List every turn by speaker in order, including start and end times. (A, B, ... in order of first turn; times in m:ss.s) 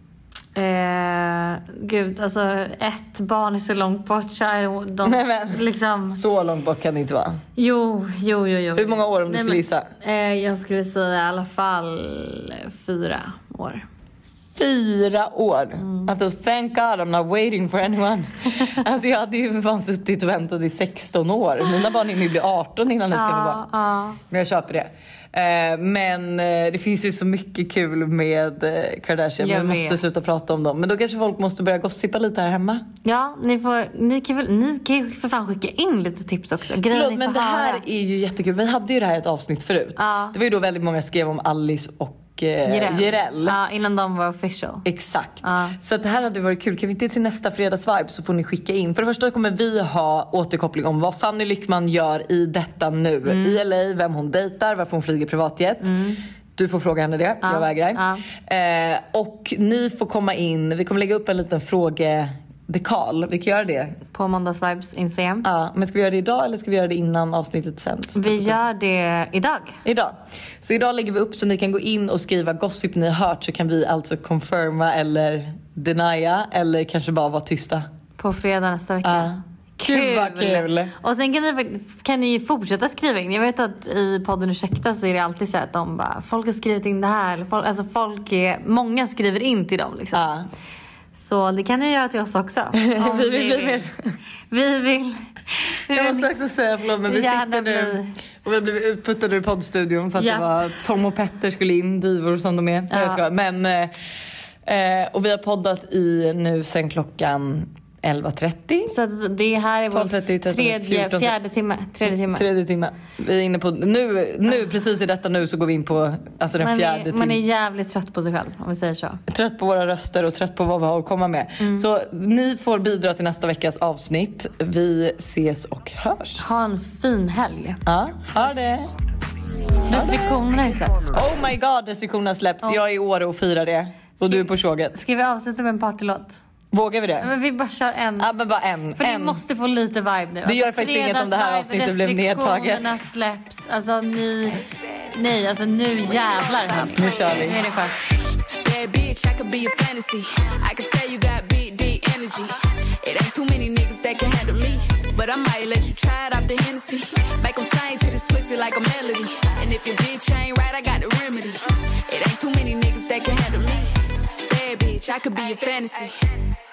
0:00.6-0:06.2 A
0:05.0-0:07.4 B
0:07.6-0:13.8 A
0:08.8-0:09.9 B
0:14.6-0:23.6 B
0:15.8-0:16.1 A
0:23.1-0:24.2 A
0:24.3-0:32.8 B
0:29.4-0:30.0 A
0:33.0-0:37.8 A
0:36.9-0:43.6 B
0:40.0-0:40.4 A
0:42.6-0:44.9 A
0:44.8-0:55.9 B
0:45.4-0:45.8 A
0:53.3-0:53.6 A
0:55.8-0:56.2 A
0:56.6-1:04.0 B
0:57.4-0:58.3 A
1:04.1-1:05.4 A
1:05.4-1:08.6 B
1:08.2-1:09.8 A
1:09.8-1:17.9 B
1:18.2-1:30.2 A
1:19.0-1:20.9 B
1:30.1-1:30.5 B
1:31.2-1:33.9 A
1:32.8-1:34.0 B
1:34.5-1:36.4 A
1:35.9-1:43.9 B
1:37.0-1:38.1 A
1:40.2-1:40.5 A
1:42.9-1:43.2 A
1:44.6-1:49.0 B
1:48.9-1:52.5 A
1:49.9-1:51.4 B
1:52.2-1:57.4 B
1:56.6-1:59.2 A
1:59.3-2:06.4 B
2:01.6-2:01.9 A
2:06.4-2:07.8 A
2:07.8-2:08.9 B
2:09.9-2:11.2 A
2:09.9-2:10.3 B
2:11.1-2:15.0 B
2:14.2-2:16.4 A
2:16.7-2:17.3 B
2:17.2-2:18.3 A
2:18.2-2:19.4 B
2:19.0-2:28.0 A
2:20.4-2:22.9 B
2:27.0-2:27.6 B
2:28.6-2:46.3 C